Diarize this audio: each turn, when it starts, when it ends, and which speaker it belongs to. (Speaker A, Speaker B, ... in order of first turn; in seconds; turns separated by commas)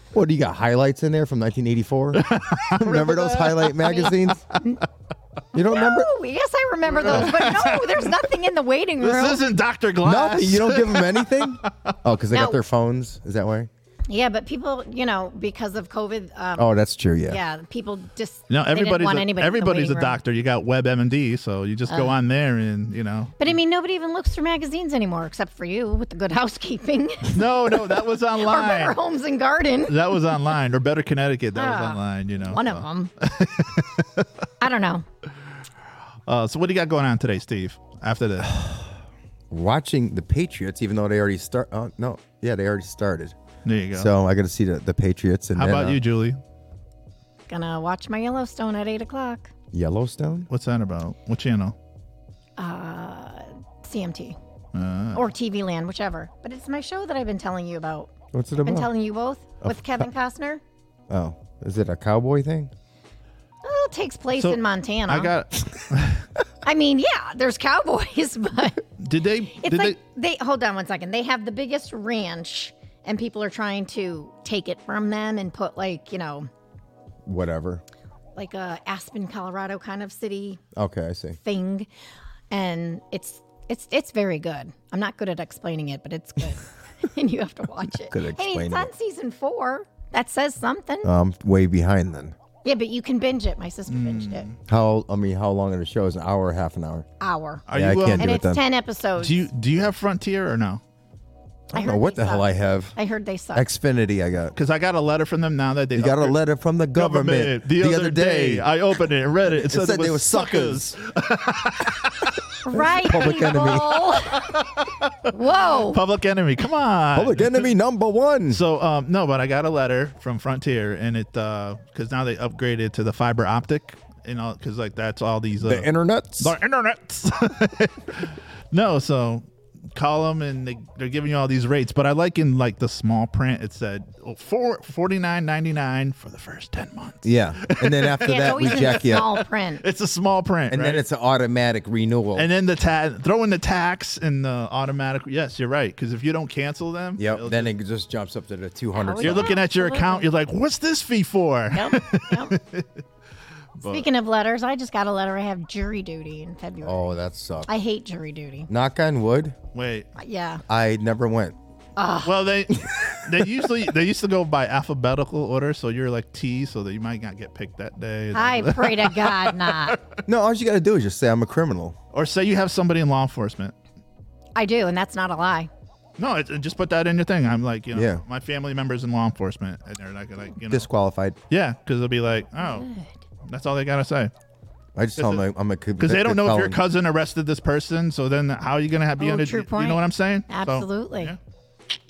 Speaker A: 0.1-4.4, Speaker B: 2.1-4.6, Speaker C: 3.9-4.8, Speaker A: 5.5-6.1, Speaker C: 5.6-9.4, Speaker B: 7.0-8.3, Speaker A: 7.0-7.4, Speaker B: 9.0-12.0, Speaker A: 10.0-13.7, Speaker C: 12.3-12.6, Speaker C: 14.1-16.8, Speaker A: 16.6-17.4, Speaker C: 17.3-20.2, Speaker B: 18.5-23.4, Speaker C: 23.4-27.5, Speaker B: 27.3-29.0, Speaker C: 28.4-30.1, Speaker B: 29.9-34.3, Speaker C: 31.6-33.1, Speaker C: 34.6-35.0, Speaker B: 36.3-38.6, Speaker A: 38.5-38.8, Speaker A: 39.5-43.4, Speaker B: 43.6-44.1, Speaker A: 43.9-46.0, Speaker B: 45.6-46.4, Speaker C: 47.5-49.5, Speaker A: 49.7-50.5, Speaker B: 50.5-51.8, Speaker C: 52.6-54.4, Speaker B: 54.7-55.2, Speaker C: 55.1-58.1, Speaker A: 58.3-59.0, Speaker C: 58.6-60.6, Speaker A: 59.6-60.1, Speaker A: 61.1-62.7, Speaker C: 63.6-65.3, Speaker B: 64.4-66.3, Speaker C: 66.7-68.8, Speaker B: 69.0-70.0, Speaker C: 69.6-76.5, Speaker A: 77.2-77.8, Speaker C: 78.4-80.6, Speaker A: 80.8-81.4, Speaker C: 81.4-81.9, Speaker C: 82.5-91.1, Speaker A: 88.1-88.9, Speaker A: 91.0-92.4, Speaker C: 92.6-94.5, Speaker B: 93.9-94.6, Speaker A: 94.7-97.1, Speaker C: 97.2-97.6, Speaker B: 97.7-98.3, Speaker A: 97.7-98.6, Speaker C: 98.2-99.5, Speaker B: 99.2-100.8, Speaker C: 101.7-103.7, Speaker A: 101.7-103.0, Speaker A: 103.5-104.5, Speaker B: 104.5-106.4, Speaker A: 106.0-108.7, Speaker B: 106.9-112.4, Speaker A: 109.4-111.0, Speaker C: 112.6-114.5, Speaker A: 112.7-114.2, Speaker B: 114.3-117.7, Speaker C: 115.3-116.0, Speaker A: 117.1-118.6, Speaker B: 118.5-141.0, Speaker A: 125.6-126.6, Speaker A: 137.2-139.4, Speaker C: 138.2-139.8, Speaker A: 140.7-142.5, Speaker B: 142.3-147.7, Speaker A: 147.2-149.6, Speaker C: 149.0-150.3, Speaker B: 149.2-152.9, Speaker C: 151.7-152.6, Speaker B: 153.8-154.1, Speaker C: 153.8-157.1, Speaker A: 156.8-157.7, Speaker C: 157.7-158.7, Speaker A: 158.7-159.6, Speaker B: 159.7-160.1, Speaker C: 160.2-160.6, Speaker A: 160.7-161.6, Speaker C: 162.0-162.3, Speaker B: 162.2-170.2, Speaker C: 168.3-170.0, Speaker A: 170.3-172.0, Speaker B: 172.1-173.7, Speaker C: 174.6-175.7, Speaker B: 176.2-180.9, Speaker A: 177.9-178.2, Speaker A: 180.7-181.4, Speaker B: 181.5-182.9, Speaker C: 182.6-183.1, Speaker B: 183.5-184.3, Speaker A: 184.9-186.8, Speaker B: 185.2-185.4, Speaker B: 186.0-191.4, Speaker C: 189.2-191.3